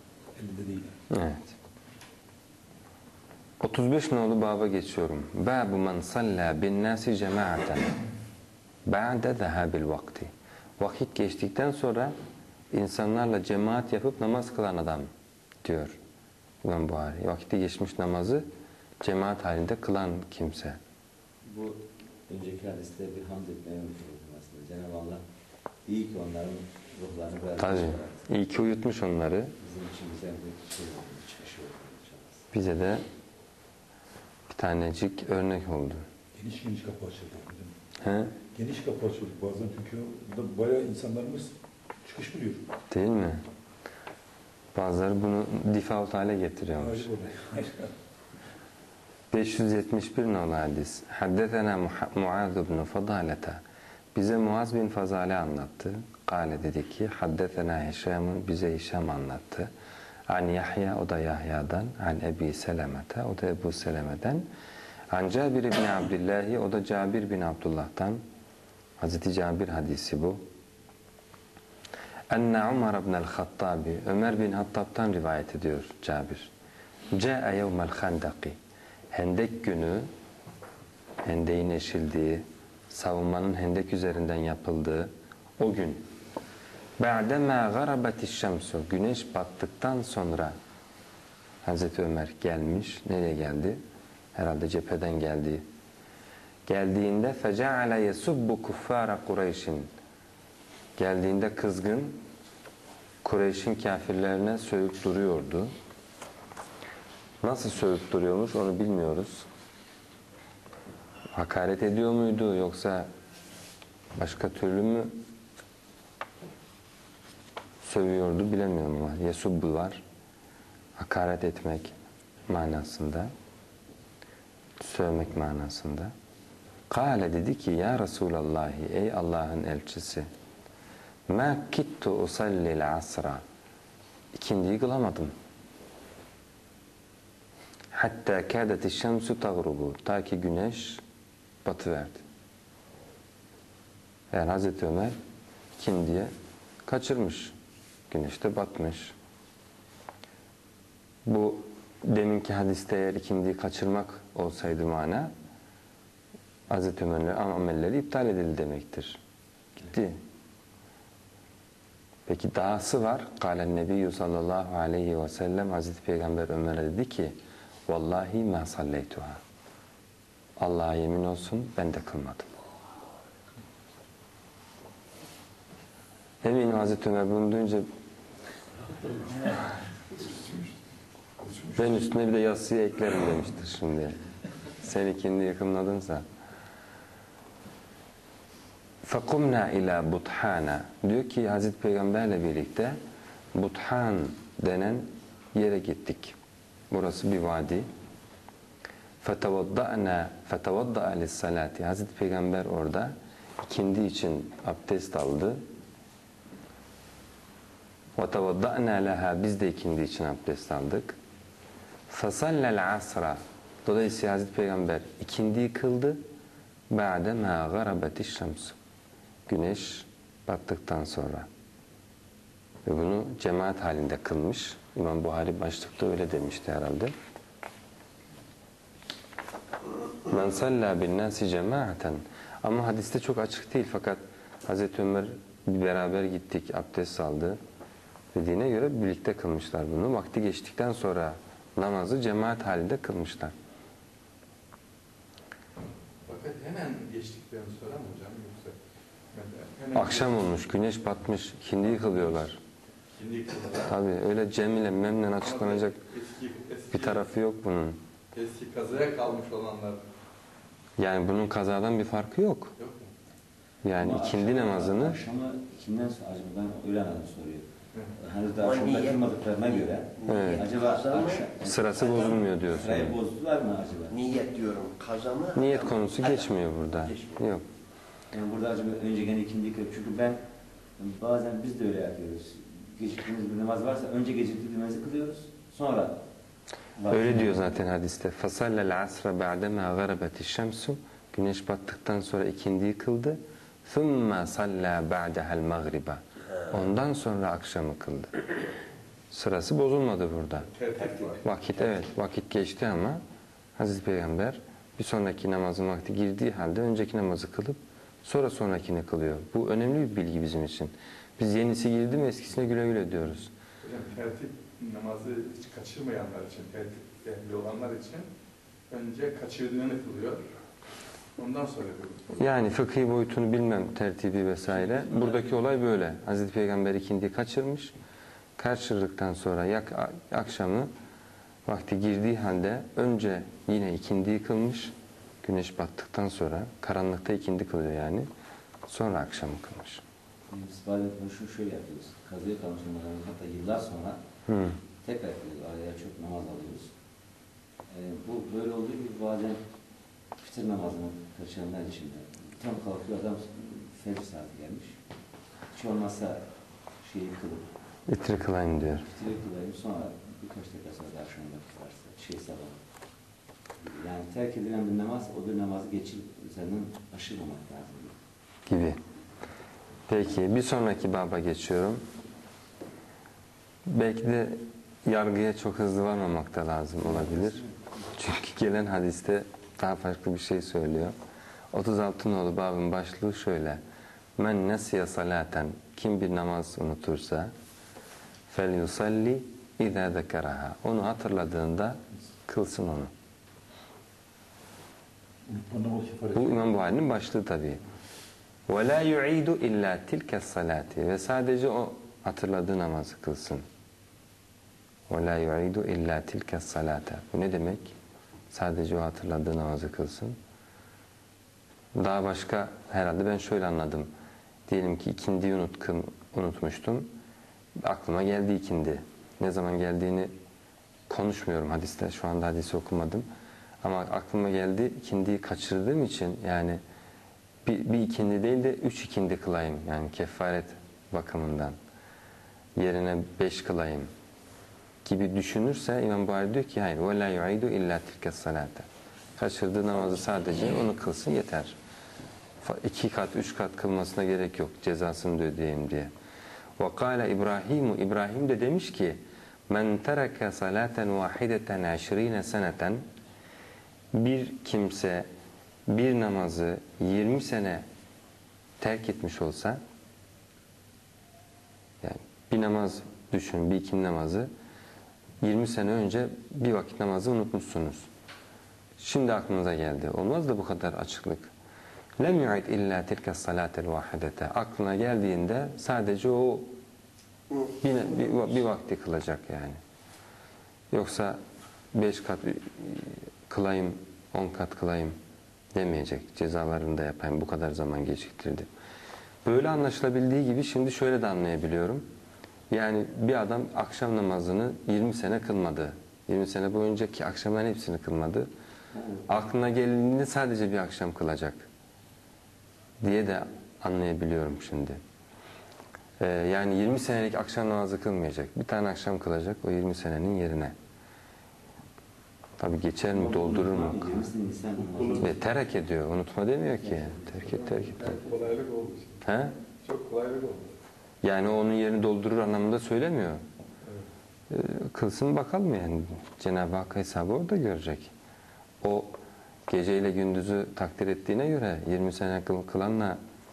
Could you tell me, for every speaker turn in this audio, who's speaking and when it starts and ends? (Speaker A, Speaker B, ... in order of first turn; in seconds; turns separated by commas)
Speaker A: 0.3-0.9, Speaker B: 1.1-1.5, Speaker B: 3.6-7.9, Speaker B: 8.9-12.1, Speaker B: 12.7-15.1, Speaker B: 15.6-16.0, Speaker B: 16.6-18.4, Speaker B: 19.0-20.8, Speaker C: 21.5-25.2, Speaker C: 25.9-28.2, Speaker B: 27.6-29.5, Speaker C: 29.6-32.5, Speaker B: 32.5-33.0, Speaker B: 34.5-36.0, Speaker A: 36.4-37.7, Speaker B: 38.0-38.3, Speaker A: 38.5-42.7, Speaker B: 42.9-43.4, Speaker B: 44.8-47.1, Speaker A: 46.8-47.9, Speaker B: 49.3-53.6, Speaker B: 54.1-59.7, Speaker B: 60.3-64.4, Speaker B: 65.1-68.2, Speaker B: 69.0-70.4, Speaker B: 72.3-76.5, Speaker B: 77.1-78.6, Speaker B: 79.1-80.1, Speaker B: 81.2-86.0, Speaker B: 87.0-90.5, Speaker B: 91.6-93.8, Speaker B: 94.3-95.6, Speaker B: 96.7-99.9, Speaker B: 101.0-102.2, Speaker B: 103.2-105.7, Speaker B: 107.4-109.5, Speaker B: 111.3-113.1, Speaker B: 114.2-115.1, Speaker B: 117.8-120.0, Speaker B: 121.0-121.9, Speaker B: 122.5-123.3, Speaker B: 124.8-126.1, Speaker B: 126.9-130.3, Speaker B: 131.3-133.4, Speaker B: 134.3-135.3, Speaker B: 137.9-141.0, Speaker B: 141.7-142.2, Speaker B: 144.3-145.1, Speaker B: 145.8-146.3, Speaker B: 146.9-147.6, Speaker B: 148.1-149.1, Speaker B: 151.3-155.3, Speaker B: 156.7-159.2, Speaker B: 159.8-160.2, Speaker B: 162.3-167.3, Speaker B: 167.9-169.4, Speaker B: 170.6-172.5, Speaker B: 176.4-177.9, Speaker D: 180.2-180.7, Speaker D: 181.4-181.7, Speaker B: 181.8-184.2, Speaker B: 184.8-186.2, Speaker B: 189.0-193.0, Speaker B: 193.6-196.4, Speaker B: 196.9-197.9, Speaker B: 199.2-205.6, Speaker B: 208.2-211.2, Speaker B: 212.1-216.2, Speaker B: 216.9-218.8, Speaker B: 219.5-221.5, Speaker B: 222.9-227.1, Speaker B: 230.3-237.6, Speaker B: 238.3-243.5, Speaker D: 246.3-248.8, Speaker D: 249.3-250.5, Speaker B: 249.9-252.6, Speaker D: 253.2-254.0, Speaker B: 253.9-256.0, Speaker D: 255.4-257.3, Speaker B: 256.9-258.0, Speaker D: 258.3-260.0, Speaker B: 261.0-262.7, Speaker D: 262.8-263.1, Speaker B: 263.8-265.2, Speaker C: 264.0-267.6, Speaker C: 268.2-274.3, Speaker E: 268.6-271.5, Speaker B: 270.2-270.7, Speaker B: 271.6-273.2, Speaker E: 274.1-277.4, Speaker B: 275.5-277.6, Speaker C: 278.3-280.4, Speaker C: 281.0-286.2, Speaker C: 287.0-287.8, Speaker B: 287.1-298.4, Speaker B: 299.3-300.7, Speaker D: 300.7-301.4, Speaker B: 301.4-303.2, Speaker B: 303.8-313.5, Speaker D: 313.8-318.3, Speaker D: 318.9-320.4, Speaker D: 321.4-322.4, Speaker B: 322.3-327.9, Speaker D: 324.8-325.3, Speaker B: 328.6-330.9, Speaker B: 331.7-338.3, Speaker B: 338.9-340.0, Speaker C: 340.5-344.2, Speaker B: 344.5-344.8, Speaker C: 345.0-346.9, Speaker C: 347.9-349.6, Speaker C: 350.4-354.9, Speaker C: 355.7-356.4, Speaker C: 357.0-357.7, Speaker B: 358.1-359.1, Speaker C: 358.9-362.8, Speaker C: 363.8-368.1, Speaker B: 368.7-369.0, Speaker B: 370.1-372.0, Speaker B: 373.9-377.6, Speaker C: 377.0-377.9, Speaker B: 378.1-381.1, Speaker B: 381.7-383.8, Speaker B: 384.4-387.5, Speaker B: 388.5-393.1, Speaker A: 395.5-396.8, Speaker B: 396.3-397.8, Speaker B: 398.7-403.6, Speaker B: 405.1-407.9, Speaker B: 408.5-410.4, Speaker B: 411.9-414.1, Speaker B: 414.7-417.1, Speaker B: 417.8-420.3, Speaker B: 421.1-423.3, Speaker B: 423.8-426.8, Speaker B: 427.6-431.8, Speaker B: 432.8-434.1, Speaker B: 435.0-441.7, Speaker B: 442.6-446.1, Speaker B: 446.8-453.0, Speaker B: 454.1-455.3, Speaker B: 455.9-457.8, Speaker B: 458.8-459.8, Speaker B: 462.0-464.5, Speaker B: 465.4-468.1, Speaker B: 469.0-471.5, Speaker B: 472.2-476.7, Speaker B: 477.8-479.8, Speaker B: 480.9-481.4, Speaker B: 481.9-485.1, Speaker B: 485.8-488.7, Speaker B: 489.4-492.1, Speaker B: 492.7-498.5, Speaker C: 498.9-499.2, Speaker B: 499.3-501.7, Speaker B: 503.0-505.0, Speaker B: 506.2-510.8, Speaker B: 512.6-514.3, Speaker C: 513.1-515.5, Speaker A: 514.8-515.4, Speaker B: 515.2-518.2, Speaker C: 516.7-517.5, Speaker D: 517.5-519.2, Speaker B: 519.2-519.5, Speaker D: 519.8-520.7, Speaker B: 521.2-523.4, Speaker B: 524.5-528.1, Speaker B: 528.8-529.2, Speaker B: 529.7-533.2